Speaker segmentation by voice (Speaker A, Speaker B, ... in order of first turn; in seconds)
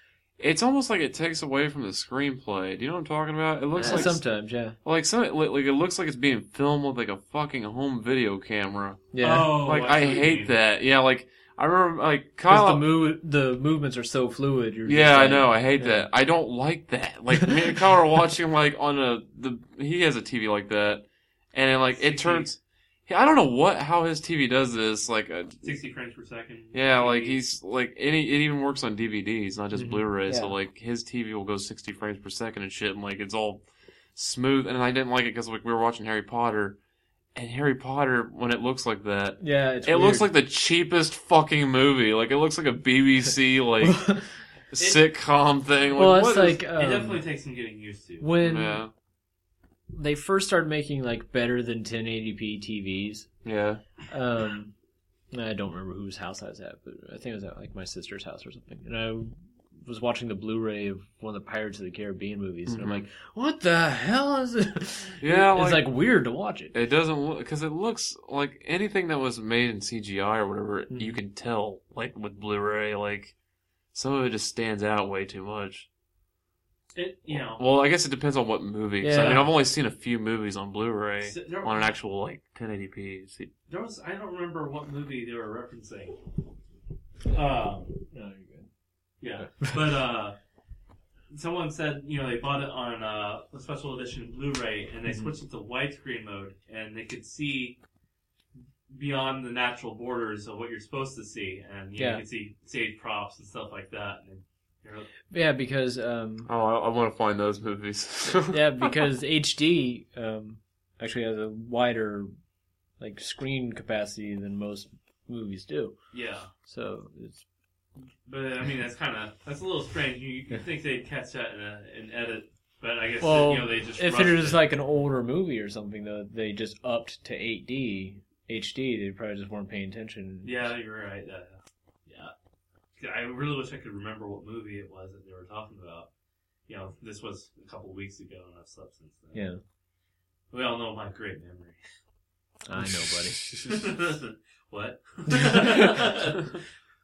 Speaker A: 0.4-4.2, 4.8-12.9, 14.8-25.7, 26.7-33.6, 34.1-36.8, 37.3-44.2, 44.7-46.6, 48.4-48.9, 53.4-53.8, 62.7-63.0, 65.2-65.9, 66.7-73.3, 73.9-75.9, 77.3-83.5, 106.5-109.0, 142.8-143.9
Speaker B: 3.8-4.1, 9.2-10.5, 21.9-22.5, 25.6-27.4, 44.8-45.0, 46.6-48.3, 76.9-77.6, 81.2-81.9, 83.7-86.2, 87.3-88.0, 89.2-90.3, 91.3-97.8, 98.9-105.1, 116.1-116.5, 118.2-124.7, 130.4-132.3, 133.0-136.1, 136.7-139.5, 140.5-141.8, 143.6-146.6
Speaker C: 3.8-4.8, 9.1-9.6, 12.5-16.1, 29.8-30.5, 39.4-40.3, 43.8-44.2, 46.0-47.2, 48.2-48.8, 49.9-53.3, 54.1-54.7, 55.3-66.7, 70.9-71.2, 79.0-79.5, 88.1-88.7, 102.0-102.2, 105.3-106.5, 108.4-112.3, 113.0-115.9, 116.7-117.4, 123.2-130.6, 139.3-139.6, 142.7-143.4